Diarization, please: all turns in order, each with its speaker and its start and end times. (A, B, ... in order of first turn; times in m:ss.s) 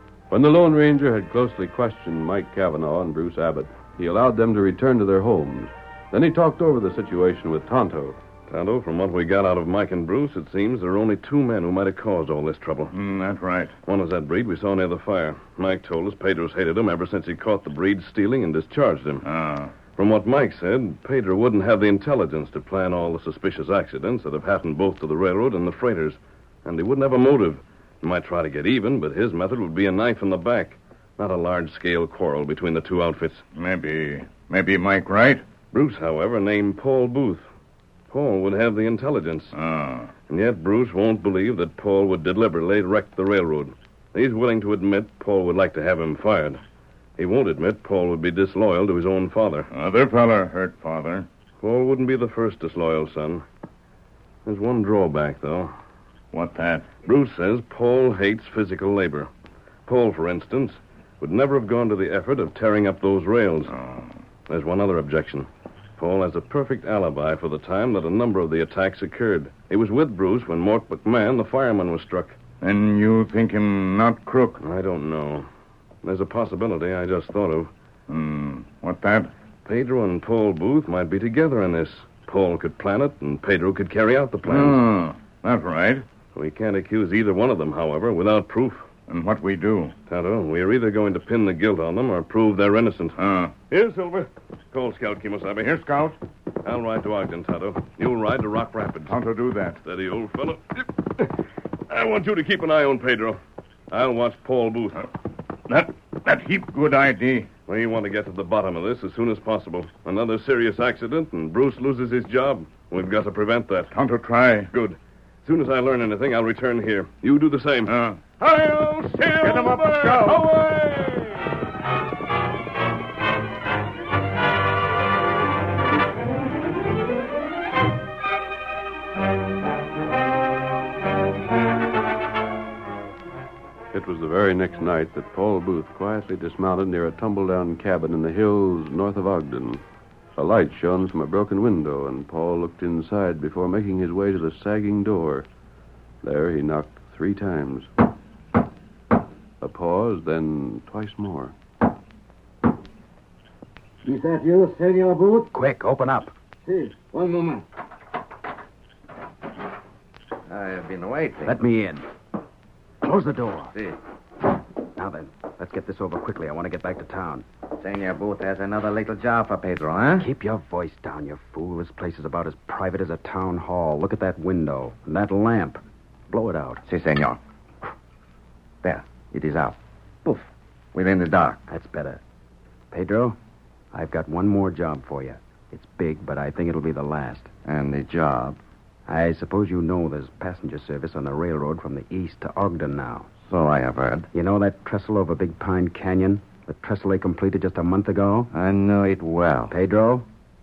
0:00.3-0:08.2 A
0:08.5-0:12.9 B
0:12.9-0:13.7 C
0:13.8-0:19.2 B
0:19.2-0:19.7 C
0:19.9-0:33.4 B
0:33.5-0:35.4 C
0:35.7-0:37.4 B
0:38.1-0:39.5 B
0:39.5-0:40.1 C
0:40.3-0:46.6 B
0:47.2-0:49.7 B
0:49.7-0:51.3 C
0:51.6-0:53.4 B
0:54.4-0:55.7 B
0:56.3-0:56.9 C
0:57.0-0:59.3 B
0:59.9-1:03.7 B
1:03.7-1:04.1 C
1:04.5-1:12.4 B
1:12.6-1:14.6 C
1:14.6-1:15.5 B
1:16.0-1:17.7 B
1:18.1-1:19.3 C
1:19.6-1:24.8 B
1:24.4-1:26.0 C
1:26.3-1:28.9 B
1:29.1-1:29.9 C
1:30.1-1:33.2 B
1:33.2-1:33.6 C
1:33.7-1:35.7 B
1:35.6-1:36.2 C
1:36.6-1:39.2 B
1:39.1-1:39.8 C
1:39.8-1:41.3 B
1:41.9-1:43.4 B
1:43.9-1:45.0 B
1:45.7-1:47.5 C
1:47.7-1:53.9 B
1:53.9-1:54.7 C
1:54.7-2:01.5 B
1:57.9-1:58.2 C
1:59.4-2:00.5 C
2:13.9-2:19.8 A
2:20.4-2:25.5 A
2:26.2-2:27.9 A
2:29.6-2:31.5 A
2:34.0-2:35.5 D
2:35.5-2:36.3 E
2:36.7-2:37.6 D
2:40.5-2:41.5 D
2:41.4-2:42.0 E
2:43.0-2:43.7 E
2:44.9-2:47.4 E
2:47.7-2:50.3 D
2:50.2-2:56.8 E
2:56.8-2:57.4 D
2:58.8-3:01.6 D
3:01.7-3:02.2 E
3:02.9-3:03.4 E
3:03.9-3:07.5 E
3:07.6-3:08.6 D
3:09.1-3:13.3 E
3:13.4-3:14.3 D
3:14.3-3:18.5 E
3:18.5-3:19.7 D
3:19.7-3:20.3 E